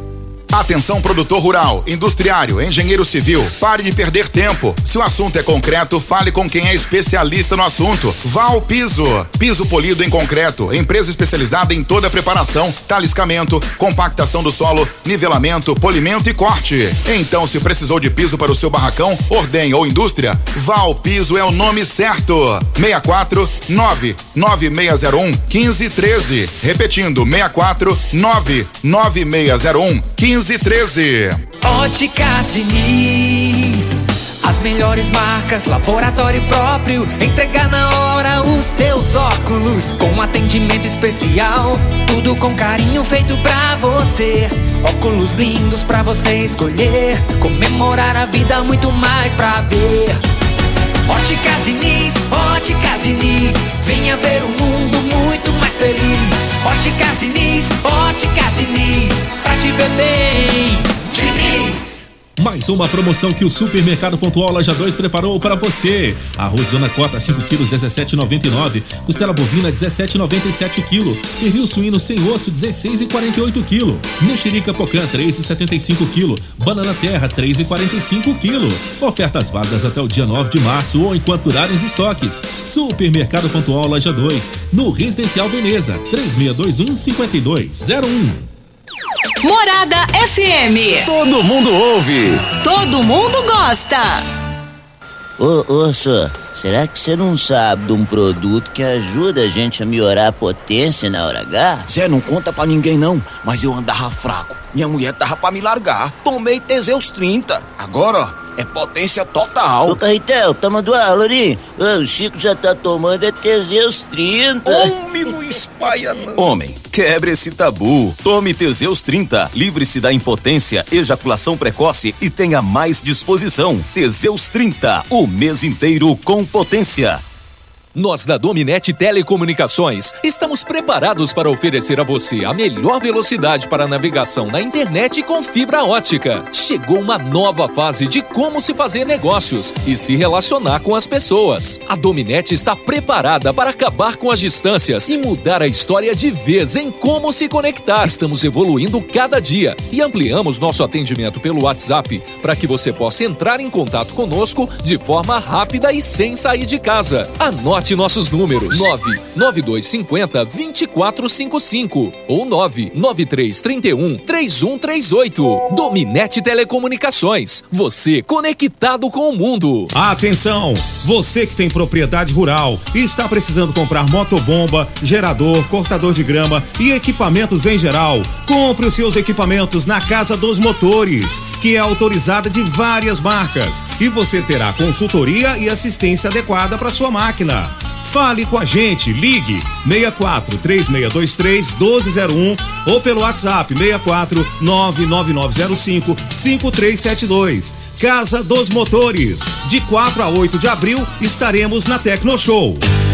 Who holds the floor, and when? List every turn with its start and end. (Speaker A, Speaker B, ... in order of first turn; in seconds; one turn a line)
Speaker A: 0.5-31.4
Speaker B: 31.6-50.2
Speaker B: 51.1-62.1
Speaker C: 62.4-88.5
Speaker D: 89.4-91.1
Speaker E: 91.0-92.5
Speaker D: 92.5-94.2
Speaker F: 95.4-101.9
Speaker G: 101.9-110.0
Speaker F: 109.8-114.9
Speaker E: 114.9-115.5
Speaker E: 116.3-127.2
Speaker H: 127.9-169.9
Speaker I: 169.9-202.8